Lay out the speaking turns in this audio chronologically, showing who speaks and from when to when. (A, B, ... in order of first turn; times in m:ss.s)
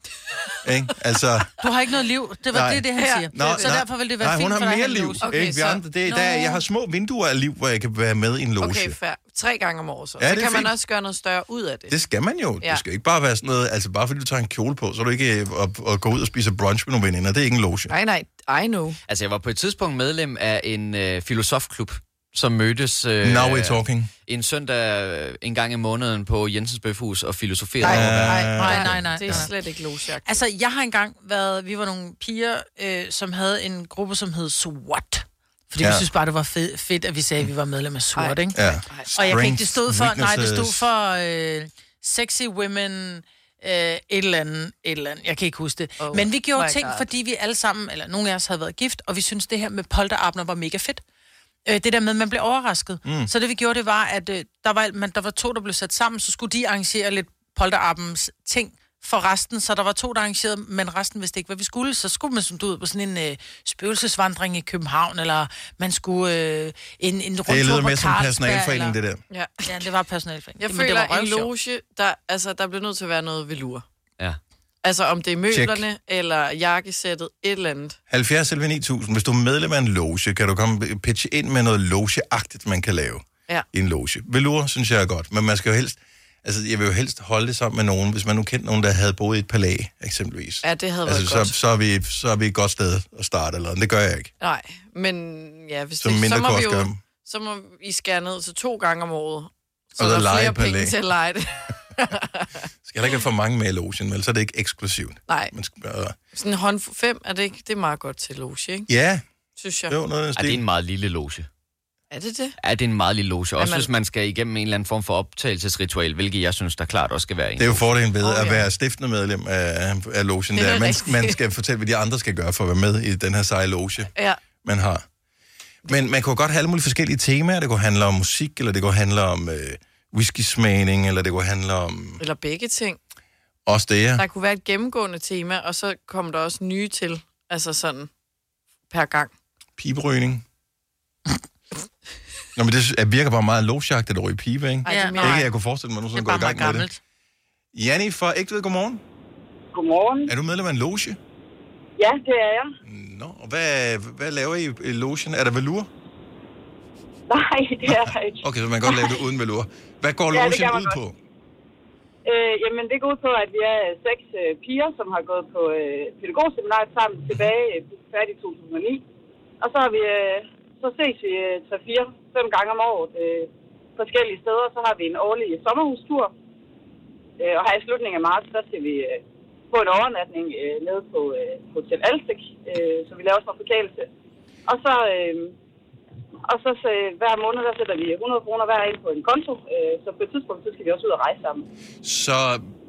0:00.6-0:01.5 A
0:01.6-0:05.3 B
0:02.5-0:09.0 A
0:02.9-0:03.8 C
0:05.2-0:06.1 C
0:06.1-0:06.6 B
0:08.6-0:12.0 C
0:10.2-0:10.7 A
0:11.9-0:17.9 A
0:17.9-0:19.0 C
0:19.1-0:28.5 D
0:23.2-0:24.1 A
0:27.8-0:29.5 A
0:27.8-0:29.5 B
0:28.6-0:30.4 C
0:30.2-0:38.6 B
0:35.8-0:36.0 A
0:38.1-0:39.5 C
0:38.5-0:40.9 A
0:39.1-0:51.0 B
0:46.0-0:47.1 C
0:51.6-1:09.0 B
0:53.0-0:53.3 A
1:07.5-1:09.2 A
1:09.3-1:09.8 C
1:09.6-1:11.5 B
1:10.6-1:13.8 C
1:14.8-1:18.0 C
1:15.5-1:15.8 A
1:18.1-1:34.3 A
1:30.6-1:31.5 C
1:34.4-1:42.7 C
1:36.0-1:37.0 A
1:40.0-1:41.0 A
1:42.8-1:46.2 A
1:45.3-1:45.5 C
1:46.3-1:48.9 C
1:48.9-1:49.2 A
1:49.6-1:50.0 C
1:49.9-1:50.6 A
1:50.4-1:51.5 D
1:52.1-1:52.6 C
1:52.6-1:57.9 D
1:53.6-1:53.9 C
1:57.6-2:04.1 A
1:58.2-1:58.7 C
2:00.6-2:01.4 C
2:04.1-2:04.4 C
2:04.6-2:05.0 A
2:05.8-2:12.2 A
2:12.2-2:13.0 C
2:13.6-2:14.2 A
2:14.2-2:18.1 C
2:18.9-2:19.3 C
2:19.8-2:20.4 A
2:22.6-2:26.9 A
2:24.8-2:25.5 C
2:24.8-2:25.5 B
2:26.1-2:27.0 B
2:27.7-2:29.0 A
2:29.7-2:30.3 E
2:30.3-2:31.2 A
2:32.0-2:32.7 E
2:32.8-2:35.9 A
2:37.3-2:39.2 E
2:37.8-2:41.2 A
2:40.3-2:41.0 E
2:42.2-2:49.0 E
2:49.6-2:56.3 E
2:57.4-3:04.1 E
3:04.7-3:05.5 E
3:06.5-3:11.6 E
3:12.0-3:12.7 A